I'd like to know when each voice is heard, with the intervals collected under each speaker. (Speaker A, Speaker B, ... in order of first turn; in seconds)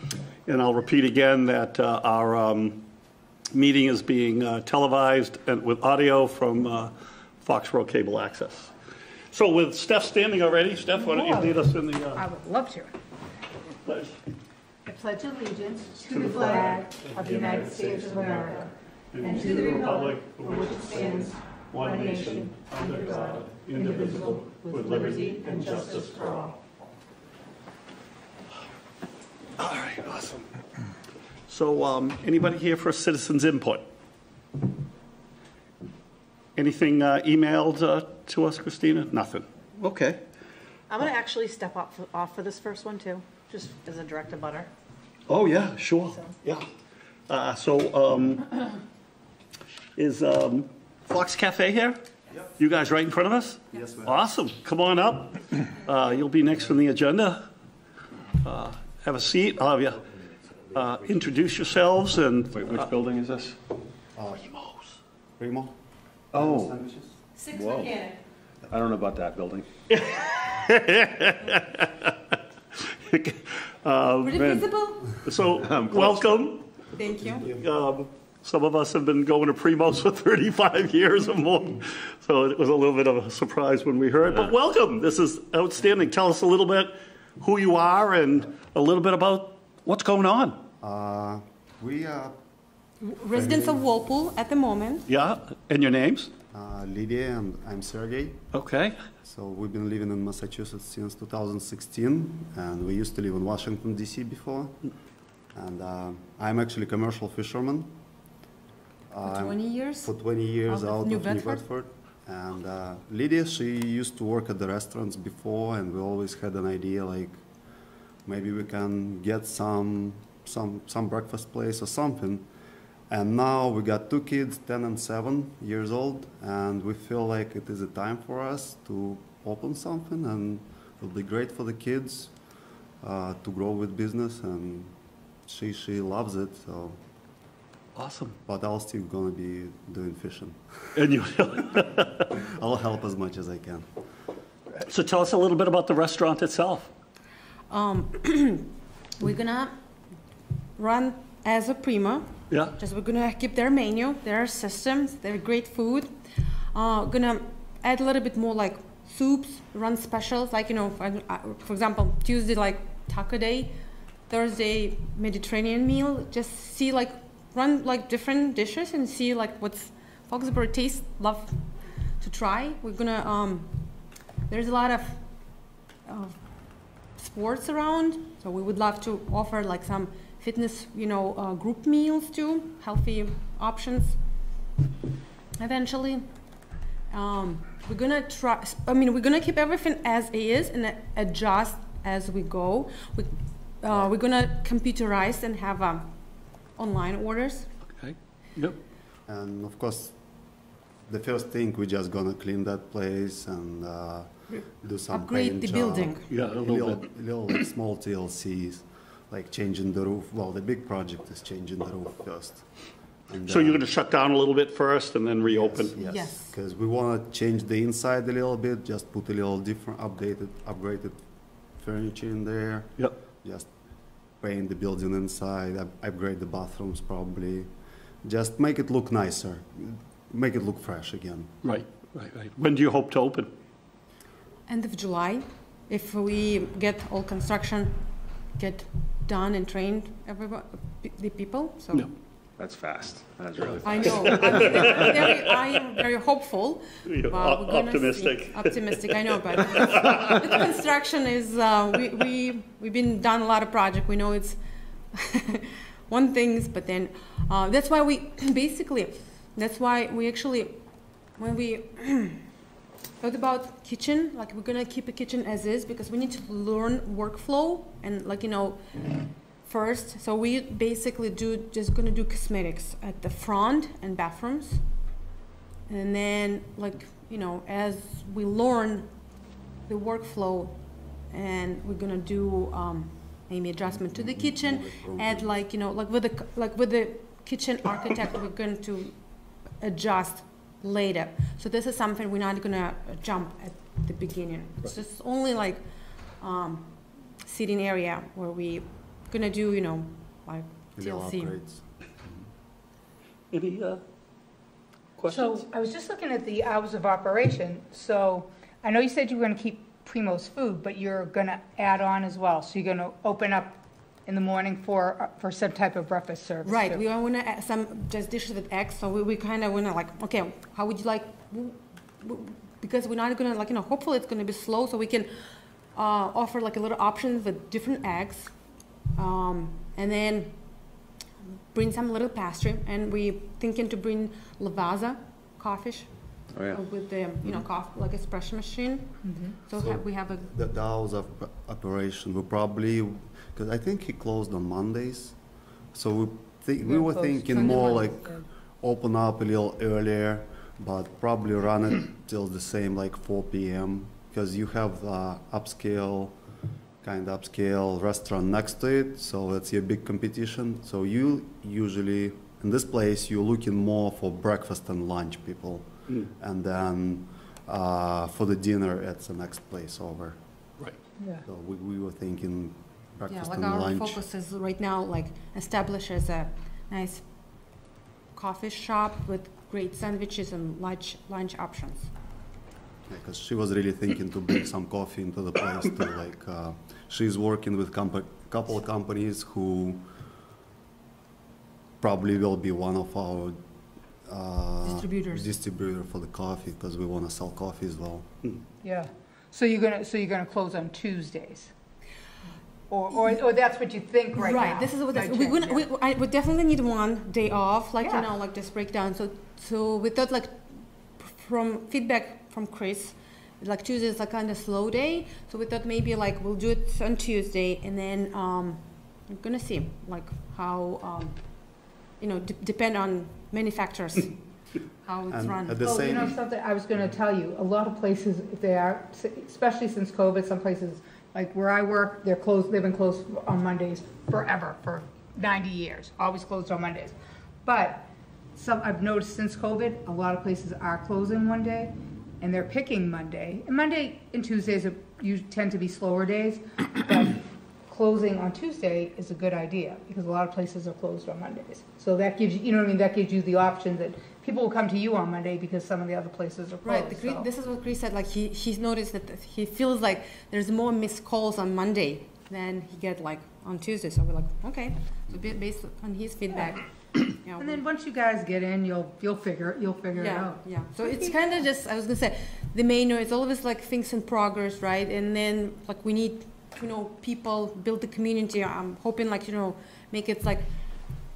Speaker A: 0.5-2.9, 3.5-8.7, 9.3-12.2, 13.8-14.2, 16.1-18.6, 19.1-26.5, 29.6-30.5, 31.5-33.9, 36.6-40.2, 45.3-46.7, 47.3-48.7, 50.0-52.0, 52.6-57.5, 58.4-60.1, 60.7-62.9, 64.5-64.8, 69.9-74.7, 75.2-76.7, 77.5-90.7, 95.1-96.3, 98.5-99.0, 137.9-138.4, 140.9-142.3, 144.8-146.9, 197.9-198.8, 206.3-207.1, 213.5-215.9, 231.6-233.5, 243.9-245.7, 247.1-250.7, 303.5-304.0, 305.1-305.6
Speaker B: 10.9-12.9, 14.9-18.7, 19.2-26.5, 305.3-317.0, 339.2-339.6, 346.8-348.5, 395.0-395.4, 398.8-401.7, 402.9-405.9, 425.8-457.5, 467.6-471.4
Speaker C: 40.9-44.7
Speaker D: 53.7-54.1, 64.2-64.5, 65.4-65.7, 66.3-67.2, 90.8-92.4, 93.3-93.9, 96.5-98.5, 99.2-104.8, 105.5-108.0, 109.1-117.4, 118.2-122.5, 123.1-132.3, 133.0-134.9, 135.5-137.0, 138.5-141.0, 142.4-143.9, 199.3-200.2, 201.1-213.8, 215.4-221.2, 221.8-223.7, 224.4-227.7, 228.2-231.6, 283.9-285.6, 301.0-301.9, 339.7-356.4, 357.0-370.8, 371.4-374.2, 383.1-390.1, 392.0-393.6, 394.2-398.3, 425.3-426.4
Speaker E: 62.5-63.6, 66.3-66.8, 67.5-68.0, 68.7-69.7, 75.5-76.6, 242.6-245.1, 336.5-336.9
Speaker F: 74.2-75.1, 76.9-77.5, 93.0-95.1, 109.2-111.7, 147.7-149.8, 150.8-156.2, 156.7-163.8, 164.3-171.7, 172.2-175.2, 176.1-176.4, 177.1-184.2, 185.6-186.3, 187.1-197.7, 204.5-206.2, 216.0-216.6, 234.7-242.1, 243.8-254.6, 255.1-260.8, 261.4-262.5, 263.2-274.9, 275.9-279.1, 279.9-295.8, 296.4-301.6, 316.6-325.3, 325.9-328.6, 329.1-331.0, 331.7-340.5, 373.3-377.3, 378.3-382.1, 404.4-424.4, 425.0-425.8, 456.8-467.8, 470.1-480.7